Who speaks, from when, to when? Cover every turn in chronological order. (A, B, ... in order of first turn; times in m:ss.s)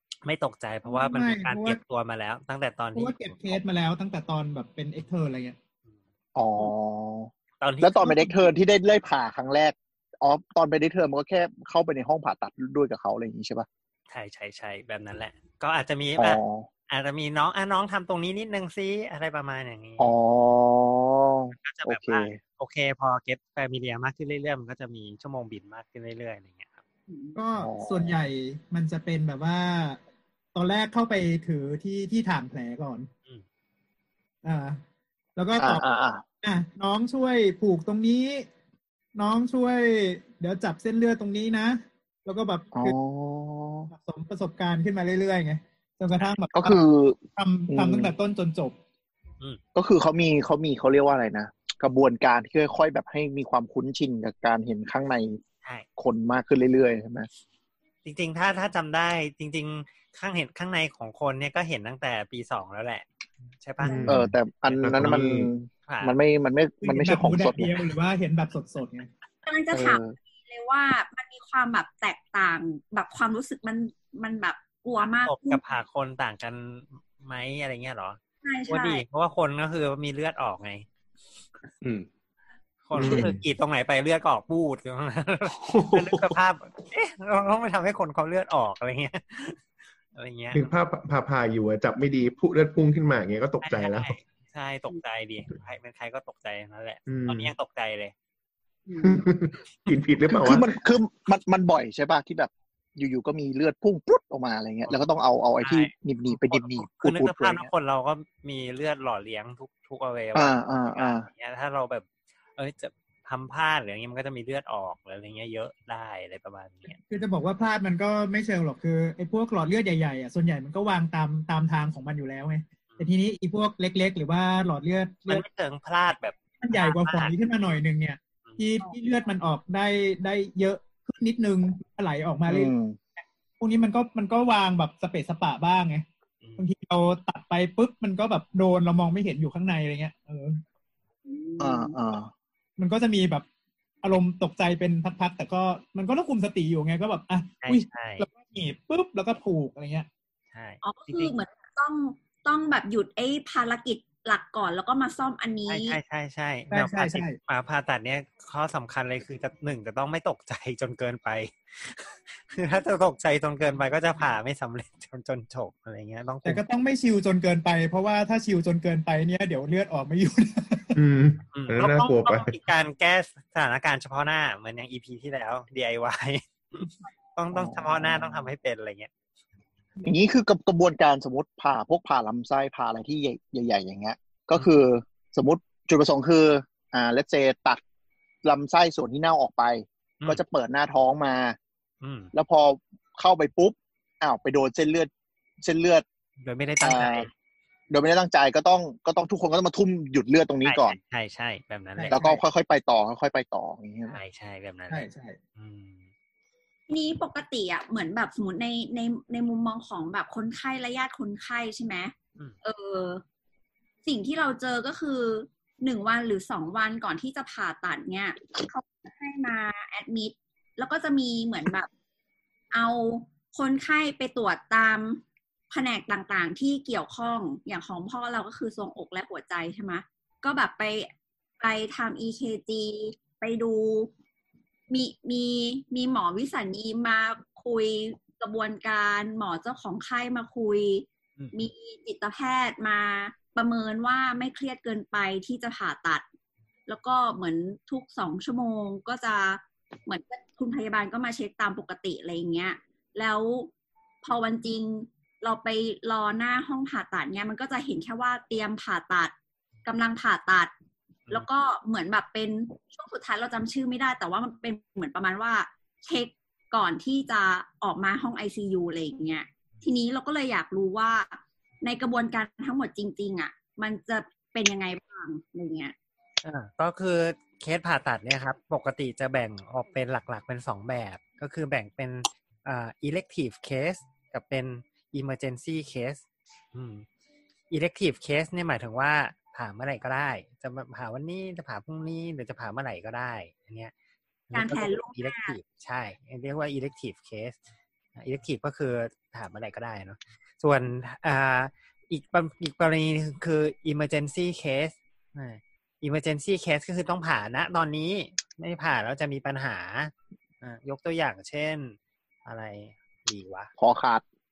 0:00.2-0:03.6 A
0:00.8-0:01.8 B
0:03.0-0:05.6 B
0:06.4-0:13.7 C
0:07.6-0:08.3 A
0:14.1-0:20.1 A
0:16.2-0:16.7 C
0:20.0-0:22.4 C
0:21.6-0:26.8 A
0:27.1-0:27.4 D
0:27.4-0:30.0 B
0:27.6-0:28.2 C
0:30.5-0:33.1 B
0:34.4-0:34.8 B
0:35.4-0:35.8 B
0:35.6-0:36.2 C
0:36.4-0:38.5 B
0:39.2-0:43.0 B
0:42.7-0:43.9 C
0:43.9-0:46.8 B
0:46.5-0:48.1 C
0:47.4-0:48.8 B
0:49.8-0:55.4 C
0:56.0-0:57.3 C
0:58.0-1:03.1 A
1:03.6-1:05.2 A
1:03.8-1:05.5 E
1:04.1-1:07.8 C
1:05.9-1:06.2 A
1:06.8-1:09.1 B
1:09.5-1:15.6 D
1:09.7-1:10.1 C
1:15.2-1:20.9 A
1:18.4-1:19.0 D
1:22.9-1:29.6 A
1:23.0-1:23.4 E
1:30.2-1:30.7 A
1:30.5-1:34.2 E
1:33.6-1:38.1 A
1:37.1-1:37.5 E
1:38.9-1:39.2 D
1:39.0-1:40.7 E
1:40.4-1:47.7 C
1:45.6-1:57.0 A
1:50.4-1:51.3 C
1:56.9-2:05.4 B
2:05.3-2:07.3 A
2:06.6-2:12.7 B
2:12.5-2:13.0 C
2:13.6-2:16.0 B
2:16.6-2:20.6 B
2:21.3-2:22.0 D
2:21.6-2:22.3 C
2:22.8-2:23.5 B
2:24.0-2:30.1 B
2:27.6-2:28.3 A
2:30.5-2:31.4 A
2:30.8-2:36.0 D
2:35.7-2:46.6 A
2:36.7-2:37.4 B
2:46.4-2:51.0 B
2:51.0-2:52.5 E
2:51.5-2:59.1 A
2:57.5-2:58.5 C
3:00.0-3:07.8 C
3:08.4-3:11.6 C
3:12.0-3:12.3 A
3:12.3-3:15.1 C
3:15.6-3:16.0 C
3:16.4-3:17.3 A
3:16.8-3:17.3 C
3:17.9-3:21.0 C
3:20.6-3:22.2 A
3:22.0-3:22.4 B
3:22.1-3:24.2 C
3:24.1-3:26.0 A
3:24.9-3:25.4 B
3:26.9-3:33.2 D
3:34.0-3:41.9 D
3:42.7-3:54.1 D
3:54.9-4:06.2 D
4:06.9-4:13.7 D
4:14.2-4:20.7 D
4:21.3-4:36.0 D
4:36.4-4:46.2 A
4:46.7-4:47.1 A
4:47.7-4:53.9 A
4:54.5-4:57.6 A
4:54.5-4:55.6 D
4:58.2-5:13.7 A
5:13.8-5:14.2 C